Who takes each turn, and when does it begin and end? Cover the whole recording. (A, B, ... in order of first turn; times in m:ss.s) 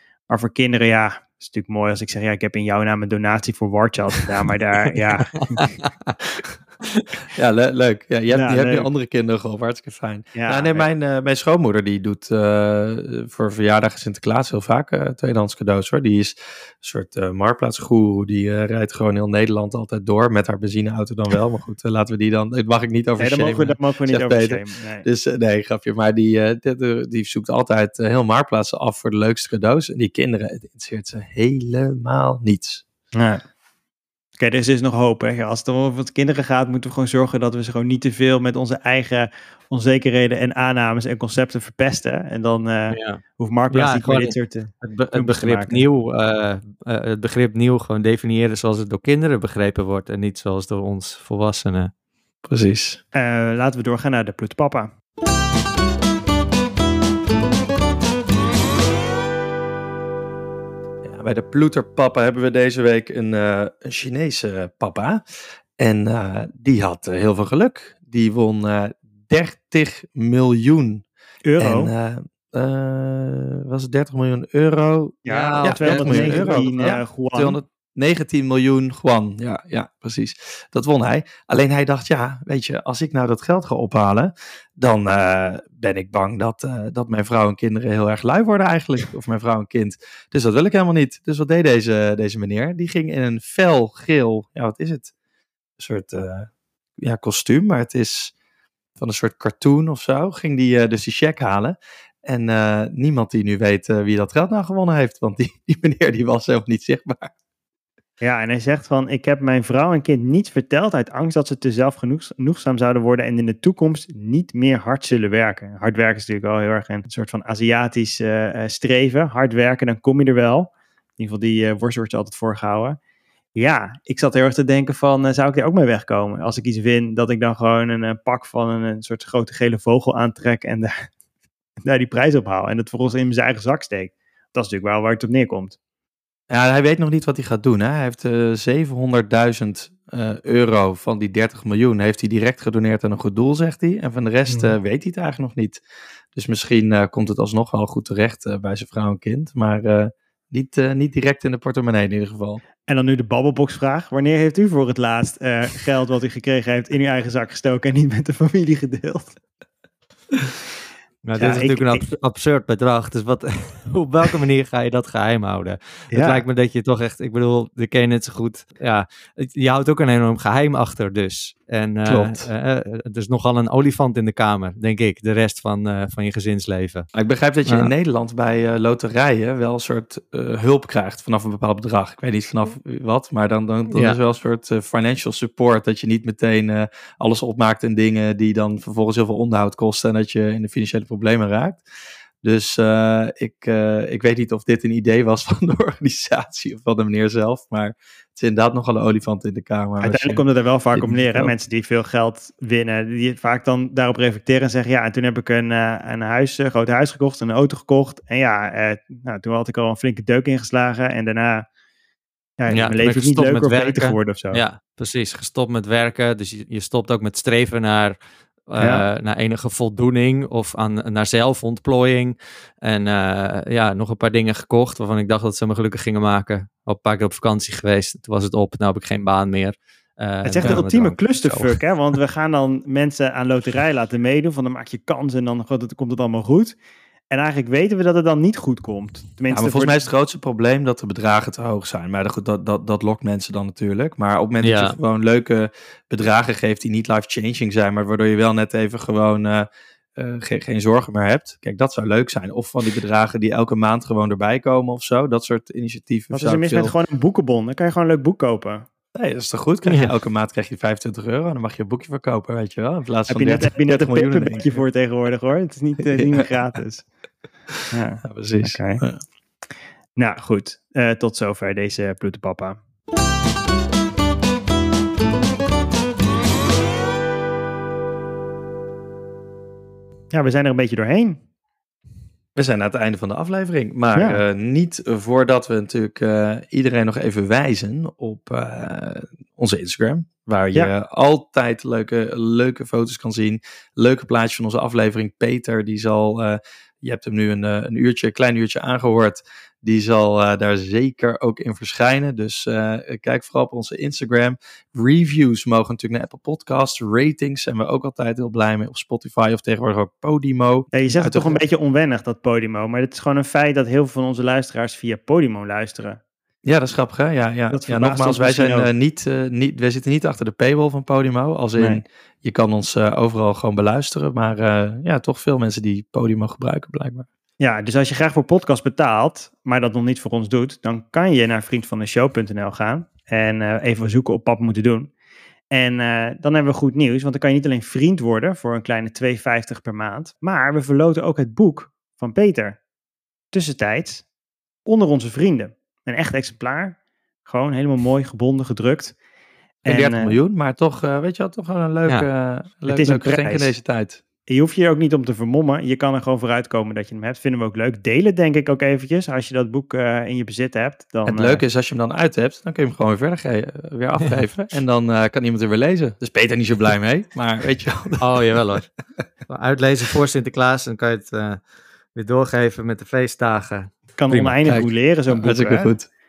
0:00.3-0:05.7 A
0:05.4-0:06.1 B
0:07.3-0:32.8 C
0:08.3-0:08.9 A
0:10.4-0:10.9 A
0:23.2-0:25.1 A
0:33.2-0:33.4 A
0:34.4-0:45.9 A
0:42.9-0:51.9 B
0:52.5-0:53.0 C
0:53.1-0:54.9 A
1:01.0-1:05.2 C
1:05.8-1:11.0 C
1:11.4-1:11.9 A
1:11.6-1:35.1 C
1:15.2-1:17.6 A
1:15.3-1:16.7 B
1:35.8-1:38.3 C
1:39.0-1:47.3 C
1:48.2-2:03.0 A
2:03.6-2:10.9 A
2:11.8-2:15.8 A
2:16.5-2:25.8 C
2:26.4-2:32.6 C
2:32.9-2:39.4 A
2:41.2-2:57.1 B
2:41.4-2:42.1 A
2:46.1-2:46.4 A
2:52.1-2:52.5 C
2:57.1-3:11.8 C
2:57.7-2:57.9 B
3:12.4-3:21.5 C
3:20.0-3:31.7 A
3:32.6-3:34.6 A
3:32.7-3:38.2 B
3:38.7-3:51.8 B
3:38.8-3:39.0 A
3:50.4-3:56.8 A
3:57.3-4:00.0 A
3:59.5-4:17.0 C
4:04.6-4:05.0 B
4:16.3-4:18.9 A
4:19.2-4:24.8 C
4:23.3-4:27.1 A
4:26.1-4:26.5 C
4:27.9-4:29.0 A
4:28.2-4:29.2 C
4:30.2-4:32.8 A
4:40.3-4:41.4 A
4:42.6-5:11.6 C
4:44.2-4:44.4 A
5:10.9-5:16.2 A
5:16.6-5:27.3 C
5:17.7-5:18.9 A
5:21.8-5:22.0 A
5:27.6-5:35.1 A
5:35.7-5:42.8 A
5:43.5-5:44.3 A
5:44.9-5:49.2 A
5:49.8-5:50.4 A
5:49.9-5:54.2 C
5:52.9-5:53.8 A
5:54.5-6:01.6 A
6:01.3-6:08.4 C
6:08.2-6:08.9 B
6:09.5-6:11.6 B
6:12.2-6:14.6 B
6:14.2-6:15.9 A
6:14.6-6:16.1 C